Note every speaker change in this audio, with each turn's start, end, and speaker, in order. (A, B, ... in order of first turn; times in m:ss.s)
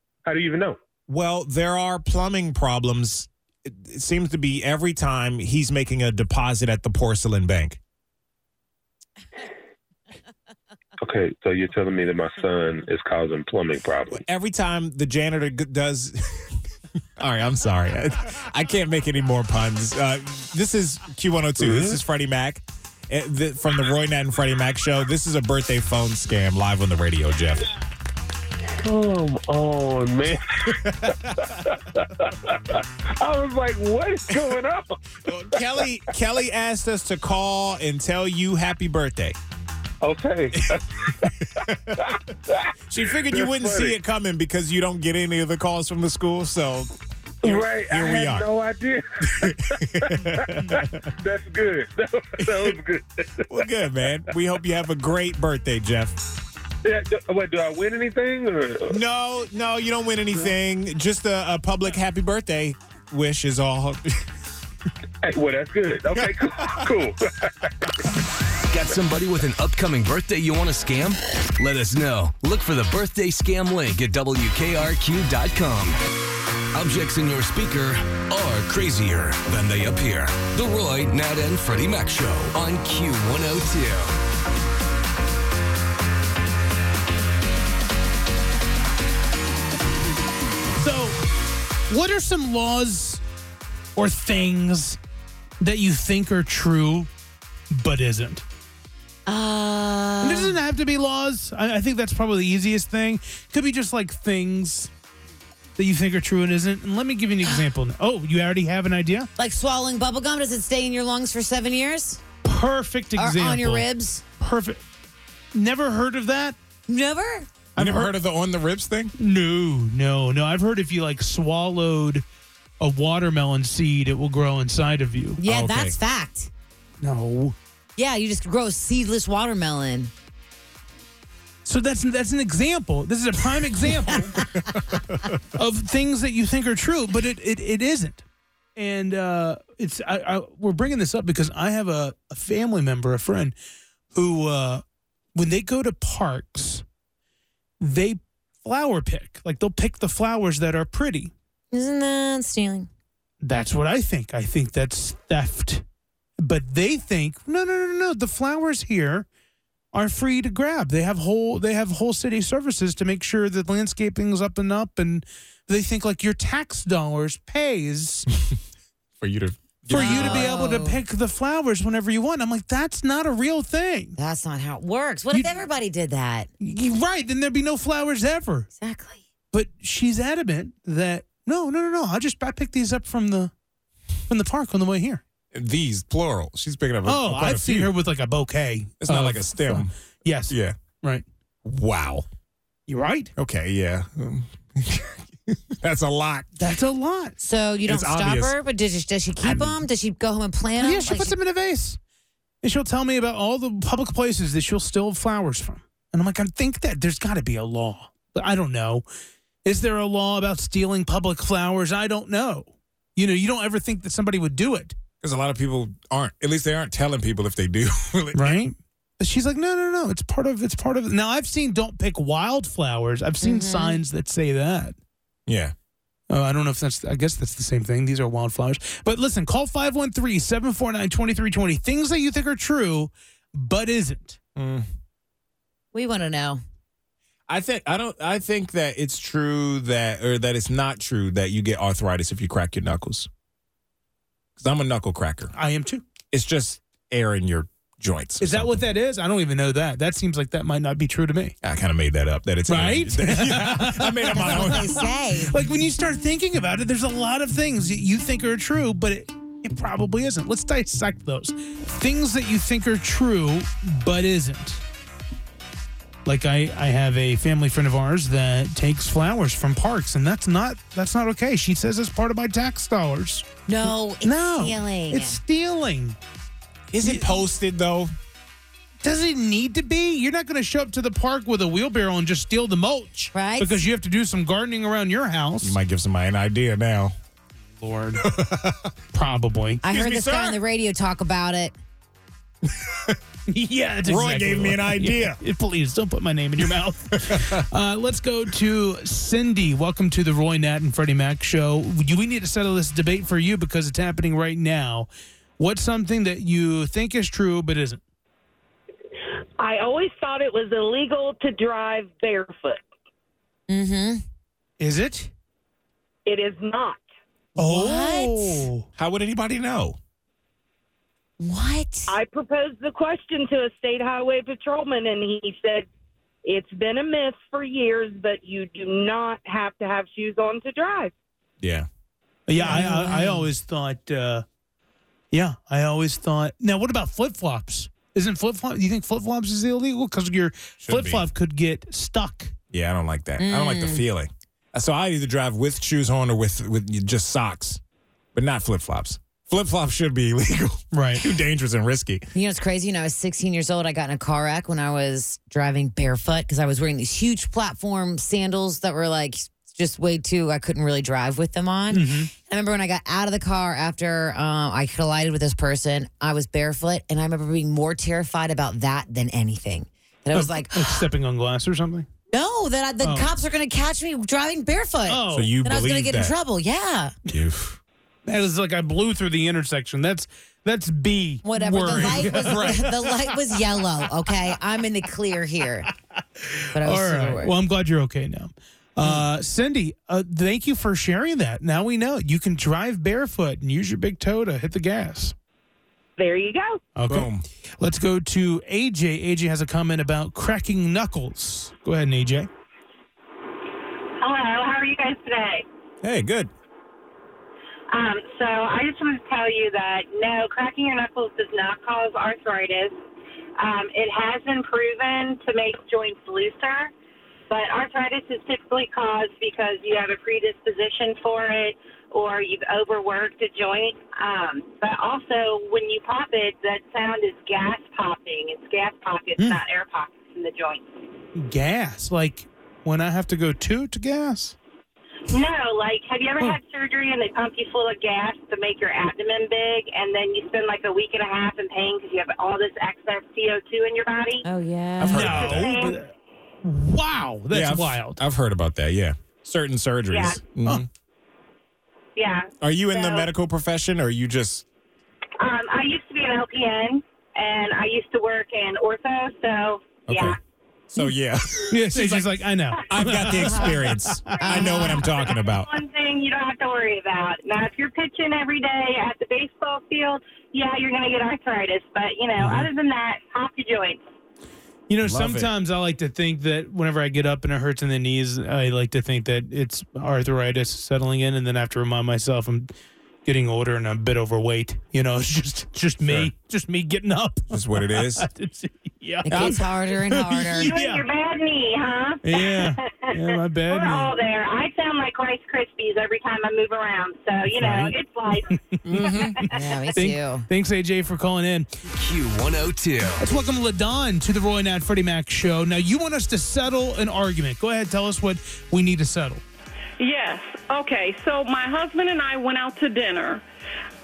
0:00.2-0:00.8 A
0:01.1-0:07.8 B
0:11.0-0:14.2 A
0:14.1-0:16.5 B
0:17.2-0:27.7 B
0:21.6-0:22.0 A
0:28.8-0:34.9 A
0:30.7-0:31.4 B
0:34.3-0:34.6 B
0:35.2-0:39.4 B
0:35.5-0:35.8 A
0:40.0-0:42.7 A
0:40.6-0:42.1 B
0:42.9-0:46.9 B
0:43.3-0:43.9 A
0:47.4-0:48.5 B
0:47.4-0:53.7 A
0:49.3-0:51.1 B
0:52.4-0:52.8 B
0:53.5-0:56.2 B
0:56.8-0:59.0 A
0:58.9-1:04.2 B
1:05.2-1:07.7 A
1:06.2-1:06.9 B
1:08.6-1:16.0 C
1:16.7-1:24.2 C
1:30.7-1:31.2 D
1:31.9-1:33.2 D
1:34.0-1:35.0 D
1:35.6-1:37.1 D
1:37.7-1:38.4 D
1:39.3-1:40.6 E
1:40.2-1:44.9 D
1:45.8-1:49.3 D
1:49.4-1:52.2 E
1:52.4-1:53.8 D
1:53.2-1:54.2 E
1:54.4-1:54.8 D
1:55.5-1:56.6 D
1:56.9-1:57.5 E
1:57.8-1:58.2 D
1:57.8-1:59.1 B
1:59.2-2:02.2 D
2:02.8-2:05.4 D
2:05.4-2:06.5 E
2:05.4-2:06.0 B
2:07.0-2:07.5 D
2:08.0-2:10.1 E
2:11.6-2:14.3 D
2:14.6-2:15.4 B
2:15.5-2:18.2 D
2:18.8-2:23.5 D
2:24.1-2:24.8 D
2:25.3-2:26.8 D
2:27.8-2:31.3 D
2:31.7-2:32.9 E
2:33.4-2:35.8 D
2:36.4-2:39.3 D
2:39.9-2:48.3 D
2:49.2-2:50.6 B
2:49.9-2:54.2 D
2:49.9-2:51.0 E
2:54.2-2:56.5 E
2:55.3-2:55.6 D
2:56.6-2:58.7 D
2:58.8-2:59.2 E
2:59.5-3:03.5 D
3:04.3-3:05.2 D
3:05.5-3:07.9 B
3:07.0-3:11.2 D
3:09.0-3:09.9 B
3:10.5-3:10.8 B
3:11.6-3:12.2 B
3:12.9-3:13.3 D
3:13.4-3:16.5 B
3:16.6-3:17.4 D
3:17.4-3:21.3 E
3:17.8-3:18.6 B
3:19.4-3:19.8 B
3:20.8-3:22.0 D
3:22.6-3:29.0 D
3:29.6-3:35.0 D
3:35.2-3:38.6 B
3:38.3-3:45.0 D
3:43.4-3:44.0 E
3:45.5-3:45.7 B
3:46.3-3:54.4 D
3:54.6-3:54.9 B
3:55.9-3:56.6 E
3:57.5-4:03.3 B
4:04.6-4:05.5 B
4:05.5-4:06.0 D
4:06.3-4:08.8 B
4:08.4-4:11.5 D
4:11.6-4:15.0 B
4:12.7-4:24.8 D
4:14.3-4:15.6 E
4:26.2-4:36.2 D
4:33.7-4:35.4 E
4:36.9-4:38.1 B
4:37.0-4:37.4 D
4:39.0-4:45.8 D
4:43.3-4:43.8 E
4:45.6-4:47.1 B
4:47.8-4:48.2 D
4:48.2-4:48.9 B
4:49.1-4:49.8 D
4:49.8-4:51.7 E
4:49.8-4:50.6 B
4:52.6-4:53.2 B
4:53.5-5:08.0 D
4:54.0-4:55.4 B
4:57.1-4:57.6 B
5:09.6-5:12.8 F
5:13.7-5:14.2 E
5:14.8-5:15.3 D
5:16.2-5:17.0 F
5:17.6-5:18.9 D
5:17.6-5:18.6 E
5:19.0-5:20.0 B
5:21.4-5:22.1 E
5:22.1-5:25.8 F
5:26.4-5:31.1 F
5:31.6-5:31.9 B
5:32.5-5:34.4 D
5:32.6-5:33.5 E
5:35.3-5:42.5 D
5:40.8-5:41.2 B
5:42.7-5:47.8 B
5:43.4-5:44.0 E
5:48.3-5:52.3 B
5:50.9-5:51.2 D
5:52.3-6:11.0 E
6:01.9-6:02.3 D
6:10.3-6:12.1 D
6:12.3-6:17.1 E
6:13.0-6:13.3 D
6:15.1-6:15.5 D
6:15.3-6:16.3 B
6:17.3-6:17.8 B
6:18.2-6:23.2 D
6:21.4-6:25.9 E
6:22.4-6:22.8 B
6:26.4-6:35.3 D
6:26.7-6:27.5 E
6:36.2-6:36.8 F
6:37.0-6:42.5 D
6:37.1-6:37.4 B
6:44.2-6:45.6 G
6:46.0-6:46.5 B
6:47.9-6:52.9 G
6:53.6-6:56.9 G
6:57.5-7:10.8 G
7:11.4-7:14.6 D
7:15.3-7:24.4 G
7:24.4-7:25.7 E
7:25.0-7:25.8 B
7:25.1-7:26.1 D
7:26.6-7:28.2 D
7:27.5-7:30.9 B
7:32.2-7:32.5 G
7:32.6-7:34.6 B
7:35.4-7:40.3 G
7:40.1-7:40.4 B
7:40.9-7:45.7 B
7:41.7-7:45.0 D
7:45.4-7:54.0 G
7:52.4-7:52.7 B
7:54.9-8:02.7 D
7:55.0-7:55.5 B
8:03.2-8:11.1 D
8:06.0-8:06.3 B
8:07.5-8:08.3 B
8:09.2-8:10.7 E
8:09.3-8:09.7 B
8:10.7-8:12.5 G
8:12.2-8:14.1 D
8:13.7-8:18.4 G
8:17.5-8:18.0 D
8:18.5-8:19.3 D
8:18.8-8:19.4 B
8:19.5-8:20.4 E
8:19.9-8:21.7 D
8:21.9-8:23.2 C
8:23.2-8:29.4 D
8:30.0-8:33.4 H